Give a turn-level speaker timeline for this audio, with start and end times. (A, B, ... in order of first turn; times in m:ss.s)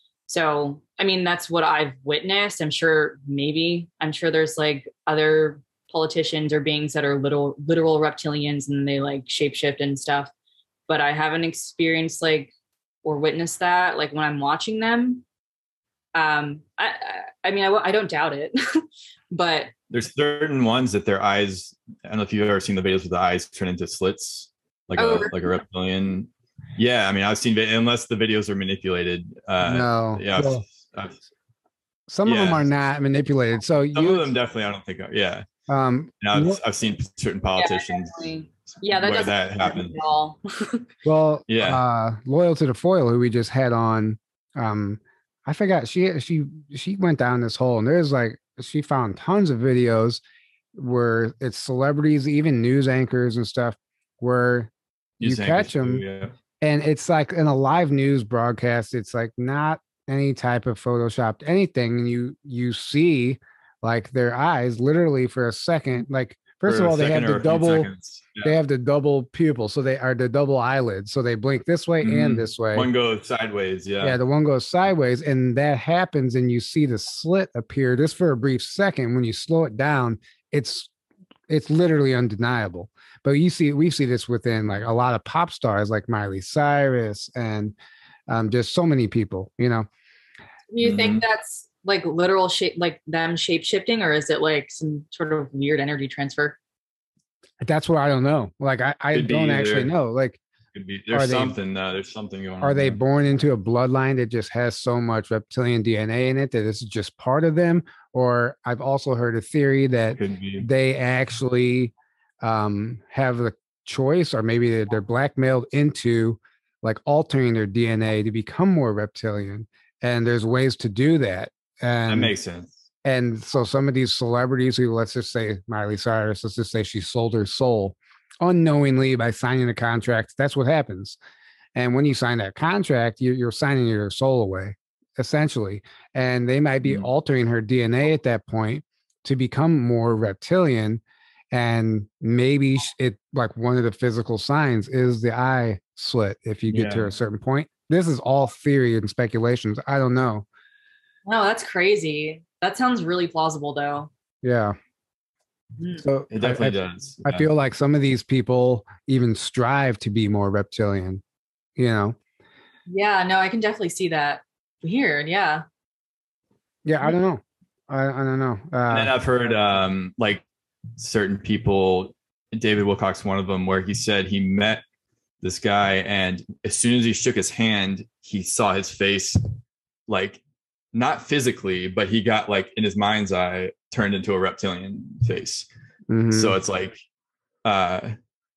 0:00.3-0:10.3 A
0:10.9-0:12.5 A
0:13.0-0:15.2 A
0:16.2-0:19.7 A
0:19.9-0:31.2 B
0:25.0-0:25.5 A
0:29.6-0:30.6 C
0:32.1-0:34.3 C
0:32.2-0:32.6 B
0:33.9-0:35.4 B
0:35.7-0:36.6 C
0:36.2-0:38.2 B
0:37.6-0:40.9 A
0:38.9-0:40.0 B
0:41.0-0:50.2 C
0:41.5-0:41.8 B
0:50.8-0:54.7 C
0:55.2-0:56.3 B
0:55.2-0:56.0 C
0:56.6-1:07.9 C
1:06.6-1:08.6 B
1:08.4-1:12.9 C
1:12.0-1:14.2 B
1:14.0-1:20.9 C
1:21.5-1:27.8 C
1:28.3-1:29.9 C
1:30.7-1:36.6 A
1:30.8-1:31.2 B
1:37.6-1:40.4 C
1:39.1-1:39.9 B
1:40.7-1:43.0 B
1:41.1-1:41.6 C
1:42.6-2:02.3 C
1:50.2-1:50.7 B
2:02.1-2:02.7 B
2:03.0-2:11.2 C
2:11.8-2:30.5 C
2:26.7-2:27.1 B
2:31.3-2:34.1 A
2:34.4-2:34.8 C
2:35.8-2:36.0 A
2:36.0-2:41.2 C
2:36.3-2:37.5 B
2:41.8-2:42.2 C
2:42.9-2:45.6 A
2:46.8-2:49.1 C
2:48.9-2:50.4 B
2:51.0-2:54.8 B
2:55.4-2:59.4 B
3:00.1-3:00.4 B
3:00.9-3:05.7 B
3:06.1-3:06.6 C
3:06.3-3:07.0 B
3:07.6-3:08.2 B